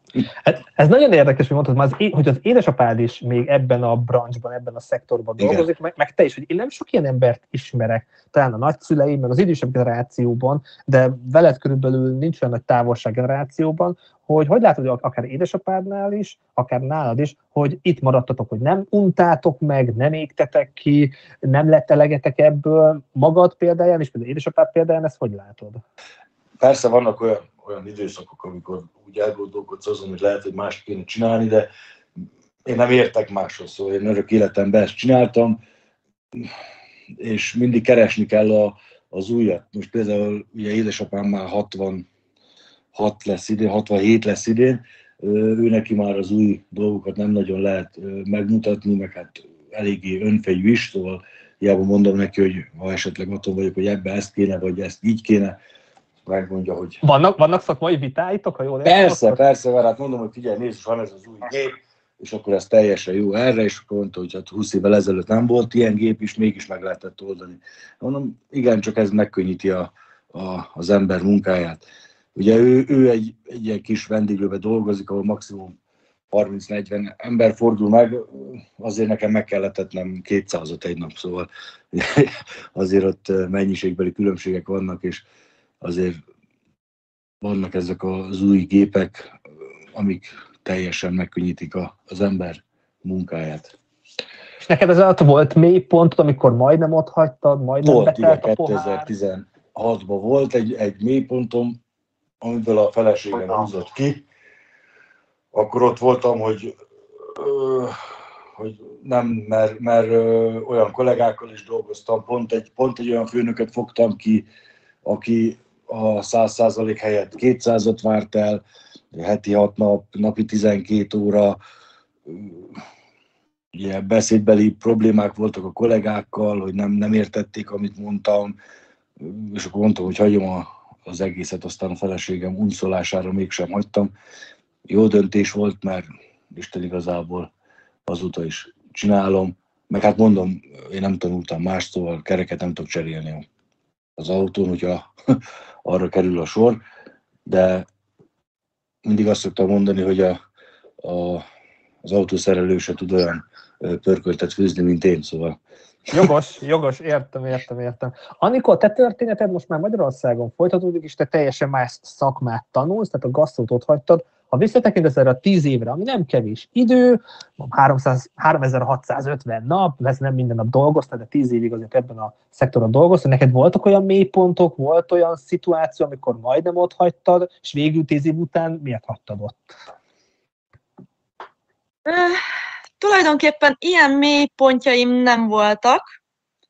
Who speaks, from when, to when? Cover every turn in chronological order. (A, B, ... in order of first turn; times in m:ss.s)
0:00.5-0:25.8 A
0:05.4-0:05.7 B
0:26.6-0:31.7 B
0:32.6-0:35.6 B
0:37.2-0:42.1 B
0:43.0-0:55.6 B
0:56.2-0:57.0 B
0:57.0-0:59.4 A
0:58.8-1:11.8 B
1:12.4-1:15.8 B
1:16.3-1:25.2 B
1:25.8-1:26.2 B
1:27.4-1:29.3 B
1:30.0-1:33.7 B
1:34.6-1:39.1 A
1:37.8-1:41.8 B
1:42.4-1:44.2 B
1:45.5-1:46.7 B
1:47.2-1:48.0 B
1:48.6-1:54.4 B
1:55.0-1:58.6 B
1:59.1-2:01.6 B
2:02.3-2:02.8 B
2:03.7-2:08.6 B
2:09.2-2:14.1 B
2:14.9-2:17.5 B
2:18.1-2:23.5 B
2:24.2-2:25.1 B
2:25.8-2:26.8 B
2:27.5-2:27.9 B
2:29.0-2:30.4 B
2:31.0-2:31.4 B
2:32.0-2:35.6 B
2:36.1-2:59.7 A
3:02.1-3:02.4 C
3:03.0-3:06.0 C